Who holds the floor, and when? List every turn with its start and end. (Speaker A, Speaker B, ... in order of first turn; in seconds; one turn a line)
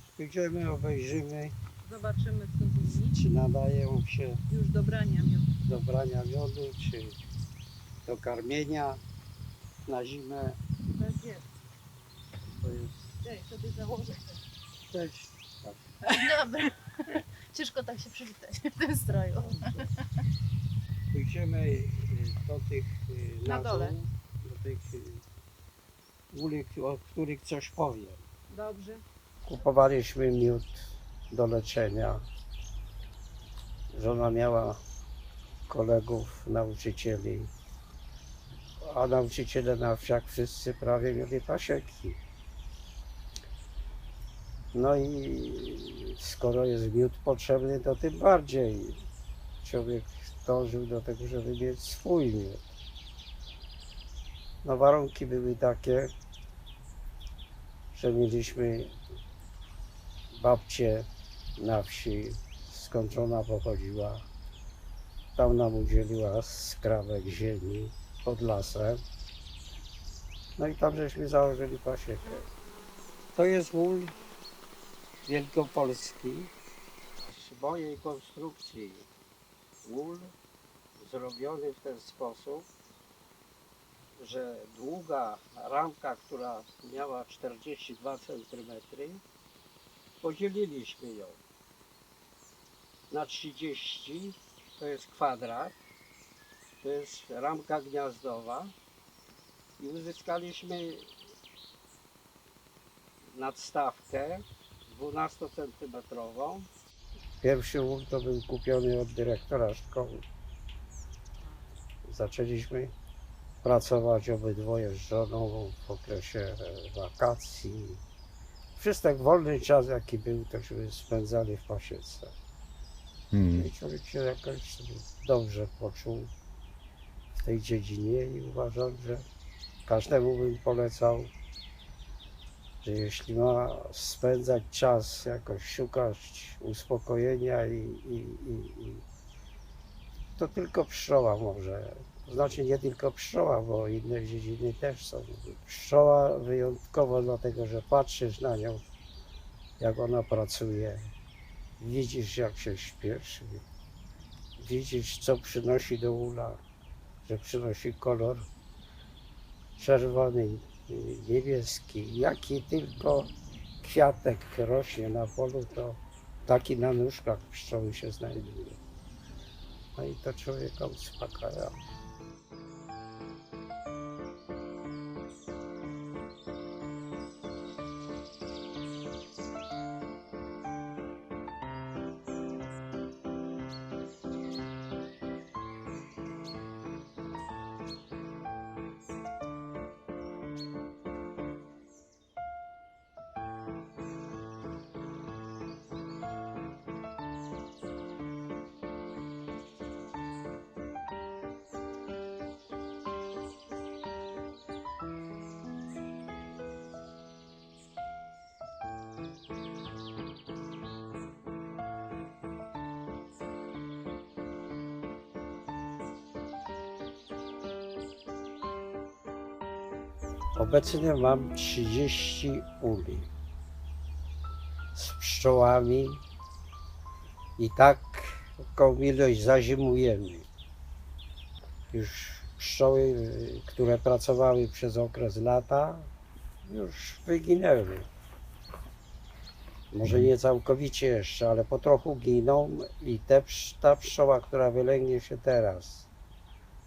Speaker A: 0.1-1.5
Speaker B: 1.8-3.2
Speaker A: 2.8-4.4
Speaker B: 4.5-5.5
Speaker A: 5.6-7.2
Speaker A: 8.1-9.0
Speaker A: 9.8-10.6
Speaker B: 10.9-11.4
Speaker A: 12.6-12.9
Speaker B: 13.2-14.4
Speaker A: 14.9-15.8
Speaker C: 16.1-19.9
Speaker A: 19.5-19.8
Speaker A: 21.1-25.2
Speaker B: 23.4-23.9
Speaker A: 26.3-28.2
Speaker B: 28.5-29.0
Speaker A: 29.4-32.2
Speaker A: 33.9-34.8
Speaker A: 35.7-37.5
Speaker A: 38.8-42.2
Speaker A: 44.7-49.0
Speaker A: 49.6-52.6
Speaker A: 54.6-56.1
Speaker A: 57.9-59.0
Speaker A: 60.3-64.2
Speaker A: 65.3-69.0
Speaker A: 70.6-72.5
Speaker A: 73.3-74.1
Speaker A: 75.2-76.5
Speaker A: 77.2-79.1
Speaker A: 79.8-80.3
Speaker A: 81.0-82.7
Speaker A: 84.2-89.2
Speaker A: 90.2-91.4
Speaker A: 93.1-95.8
Speaker A: 96.8-98.7
Speaker A: 99.8-101.1
Speaker A: 103.3-106.7
Speaker A: 107.4-110.2
Speaker A: 112.0-112.9
Speaker A: 113.6-118.0
Speaker A: 118.8-122.3
Speaker A: 123.5-126.3
Speaker A: 127.3-129.2
Speaker A: 129.8-131.3
Speaker A: 132.8-139.0
Speaker A: 140.4-148.8
Speaker A: 149.8-151.1
Speaker A: 151.8-153.6
Speaker A: 154.6-156.6
Speaker A: 157.2-158.5
Speaker A: 159.8-168.8
Speaker A: 169.9-171.8
Speaker A: 220.6-223.3
Speaker A: 224.9-226.2
Speaker A: 227.6-230.5
Speaker A: 231.9-236.1
Speaker A: 236.7-238.1
Speaker A: 239.9-246.1